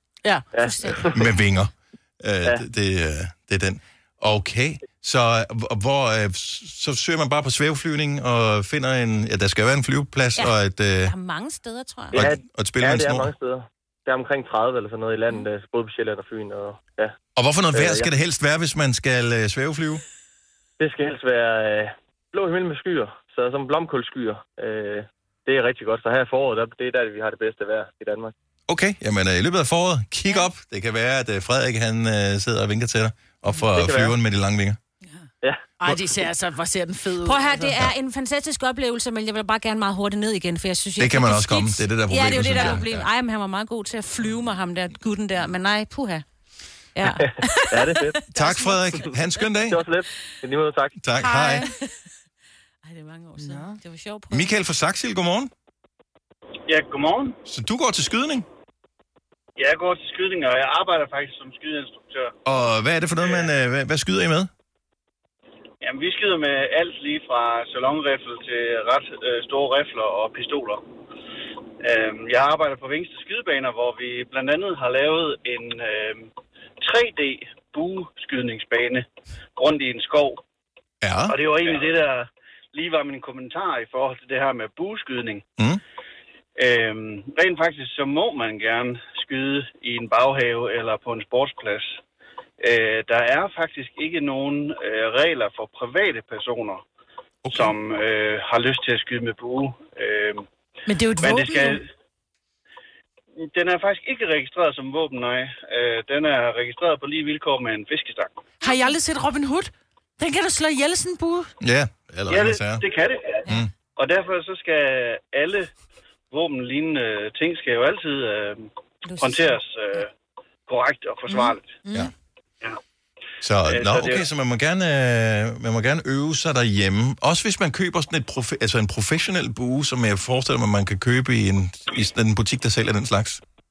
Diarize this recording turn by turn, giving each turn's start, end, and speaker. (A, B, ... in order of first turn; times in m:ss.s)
0:00.5-0:01.3 A
0:00.6-0:01.1 B
0:01.1-0:11.1 C
0:11.0-0:12.2 B
0:12.1-0:17.1 A
0:12.1-0:13.3 C
0:17.4-0:20.0 C
0:17.7-0:18.1 A
0:20.8-0:28.3 A
0:28.7-0:34.8 C
0:33.7-0:34.2 A
0:35.8-0:37.7 D
0:37.2-0:46.2 B
0:41.0-0:43.1 C
0:46.9-0:48.7 B
0:47.2-0:48.2 A
0:48.3-0:49.8 C
0:49.7-0:51.0 A
0:51.0-0:51.6 C
0:51.2-0:51.7 D
0:52.8-0:54.5 B
0:53.4-0:53.8 D
0:54.3-0:55.5 C
0:56.7-0:57.4 E
0:57.5-0:58.4 C
0:59.6-1:02.4 E
1:02.4-1:04.5 C
1:03.2-1:03.5 E
1:05.8-1:10.8 E
1:11.8-1:20.4 E
1:21.0-1:21.4 C
1:21.3-1:25.4 E
1:26.6-1:32.0 E
1:32.6-1:36.8 E
1:37.4-1:37.7 C
1:37.5-1:40.4 E
1:40.9-1:41.8 D
1:41.2-1:41.8 E
1:43.4-1:48.3 E
1:48.6-1:51.5 D
1:51.6-1:52.8 C
1:52.3-1:53.4 E
1:54.0-1:55.7 E
1:56.3-2:00.1 E
1:59.0-1:59.6 B
2:00.7-2:01.8 E
2:01.8-2:02.1 D
2:03.4-2:13.4 C
2:03.6-2:04.2 E